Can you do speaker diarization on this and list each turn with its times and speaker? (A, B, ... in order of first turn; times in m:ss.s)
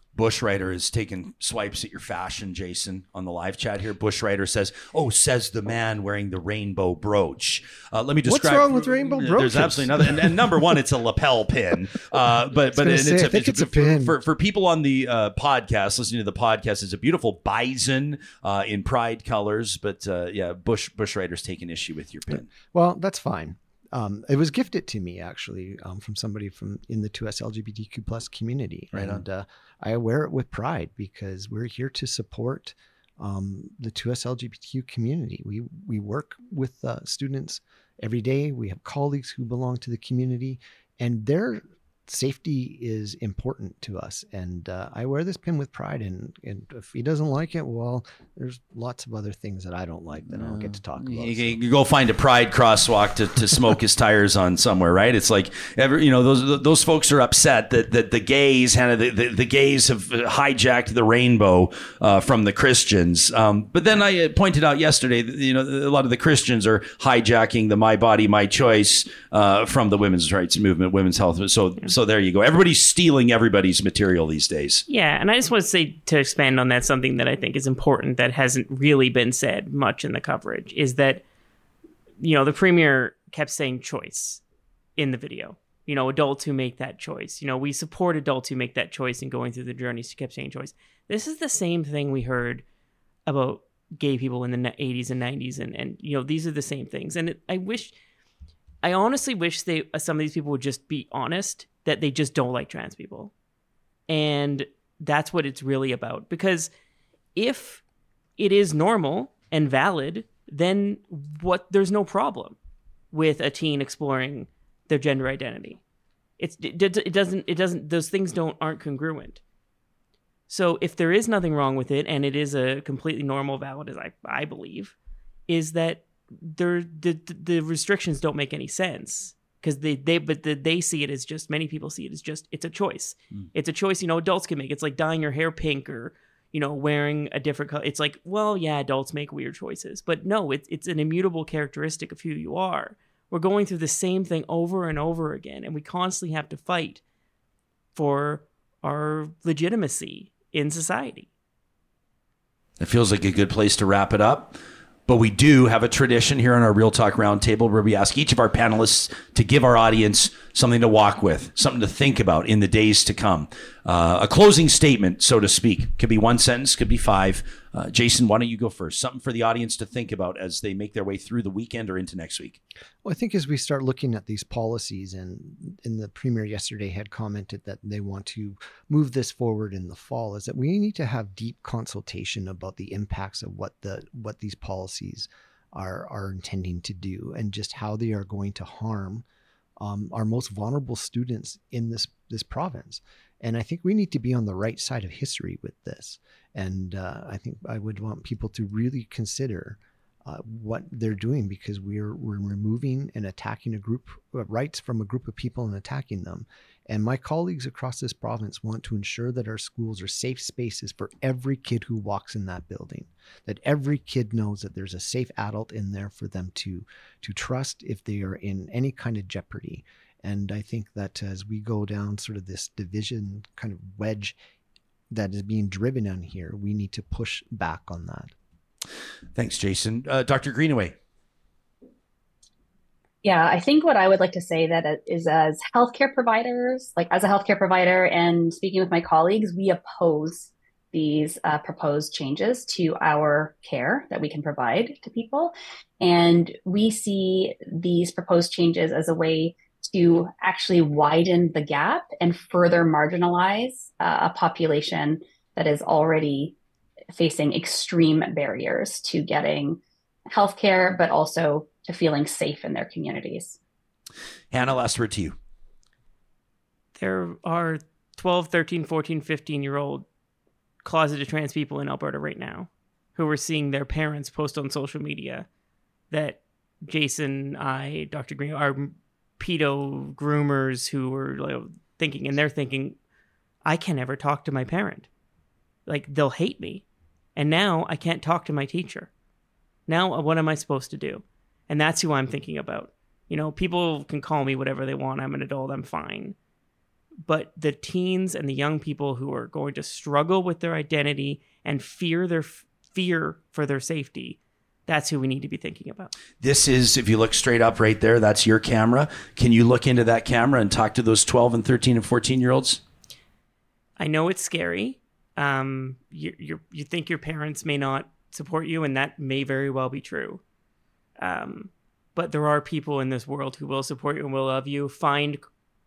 0:00.2-0:22.5 A
0:08.3-0:10.4 B
0:12.7-0:14.2 B
0:22.7-0:51.6 B
0:28.9-0:29.2 A
0:50.3-1:14.8 A
1:14.9-1:21.2 C
1:22.2-1:24.4 C
1:25.0-1:32.6 C
1:33.3-1:38.0 C
1:38.8-1:43.3 C
1:44.1-1:46.7 C
1:47.4-1:47.8 C
1:48.4-1:52.6 C
1:53.1-1:55.8 C
1:56.4-1:59.4 C
2:00.5-2:04.9 C
2:05.5-2:27.0 C
2:28.0-2:31.3 C
2:32.8-2:52.6 A
2:53.0-3:09.2 B
3:09.8-3:44.4 B
3:45.1-3:48.3 B
3:49.4-3:51.0 A
3:53.2-4:16.6 D
4:17.1-4:23.6 D
4:24.5-4:25.4 A
4:27.0-4:30.0 C
4:30.8-4:35.5 C
4:36.1-4:43.0 C
4:43.6-4:45.1 C
4:45.9-4:46.8 C
4:47.4-4:49.1 C
4:49.9-4:56.4 C
4:57.2-5:06.1 C
5:06.4-5:12.8 A
5:14.0-5:20.4 C
5:21.2-5:25.4 C